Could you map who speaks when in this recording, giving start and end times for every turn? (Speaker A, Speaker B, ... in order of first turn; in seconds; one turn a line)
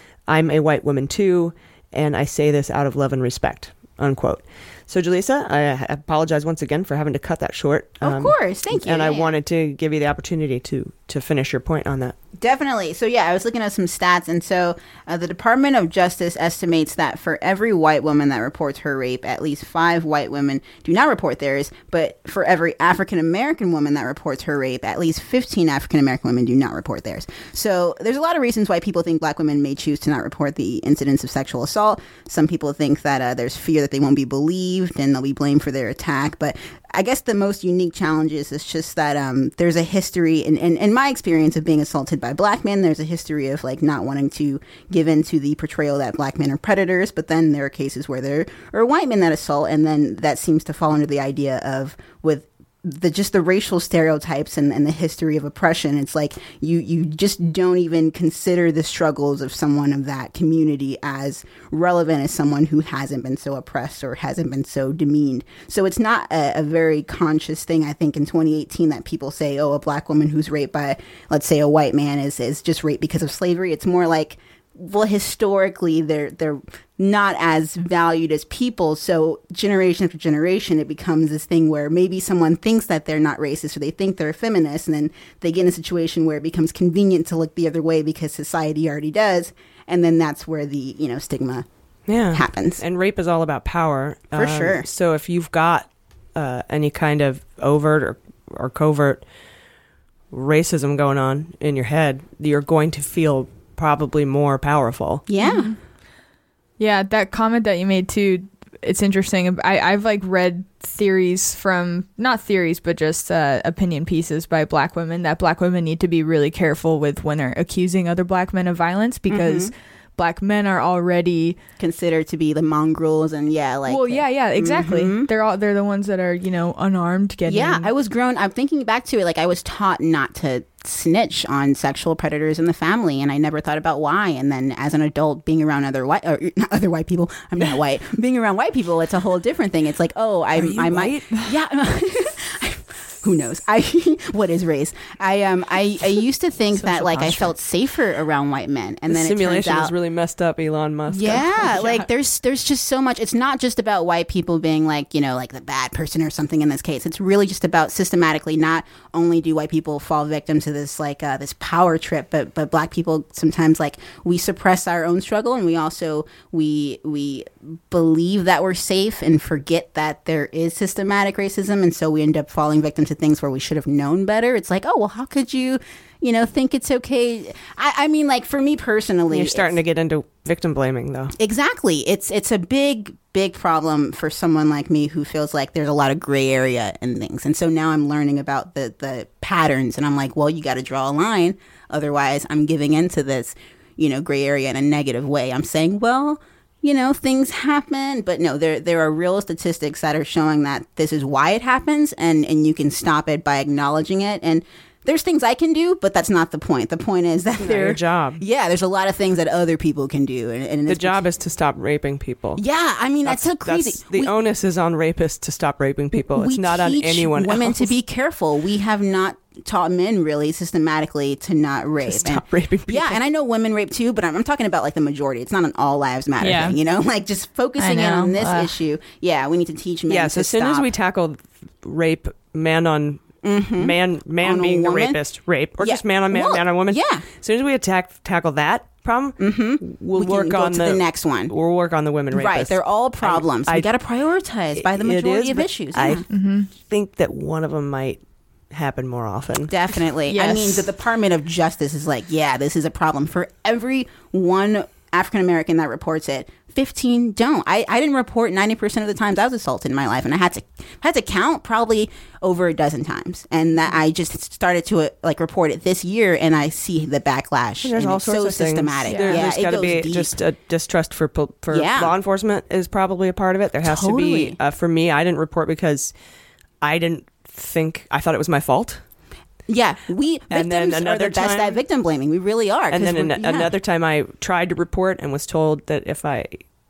Speaker A: 0.3-12.2
Speaker B: 8.0-9.3
Speaker B: 12.4-91.7
Speaker A: 92.1-99.2
Speaker B: 92.3-92.8
Speaker B: 94.3-94.9
Speaker A: 100.3-105.2
Speaker B: 105.3-105.7
Speaker C: 105.4-105.7
Speaker C: 106.8-121.6
Speaker B: 119.3-119.7
Speaker B: 121.8-125.3
Speaker C: 123.9-127.9
Speaker B: 127.5-149.9
Speaker C: 146.8-147.5
Speaker A: 149.1-151.7
Speaker B: 151.1-179.8
Speaker C: 151.4-152.0
Speaker A: 179.3-181.3
Speaker B: 181.4-211.2
Speaker A: 207.6-208.4
Speaker A: 210.9-212.6
Speaker B: 212.6-214.3
Speaker A: 213.2-217.9
Speaker B: 216.3-230.9
Speaker A: 222.0-223.2
Speaker C: 226.4-226.8
Speaker C: 227.8-228.7
Speaker A: 230.1-243.9
Speaker B: 233.4-235.2
Speaker B: 235.8-237.2
Speaker B: 239.4-241.5
Speaker B: 242.3-246.2
Speaker A: 244.8-249.7
Speaker C: 246.3-246.7
Speaker B: 249.7-270.3
Speaker C: 250.3-250.8
Speaker A: 267.8-276.1
Speaker C: 269.1-269.5
Speaker B: 271.7-272.1
Speaker B: 273.8-274.6
Speaker A: 276.8-279.0
Speaker B: 279.7-283.7
Speaker A: 280.5-281.8
Speaker A: 282.9-286.6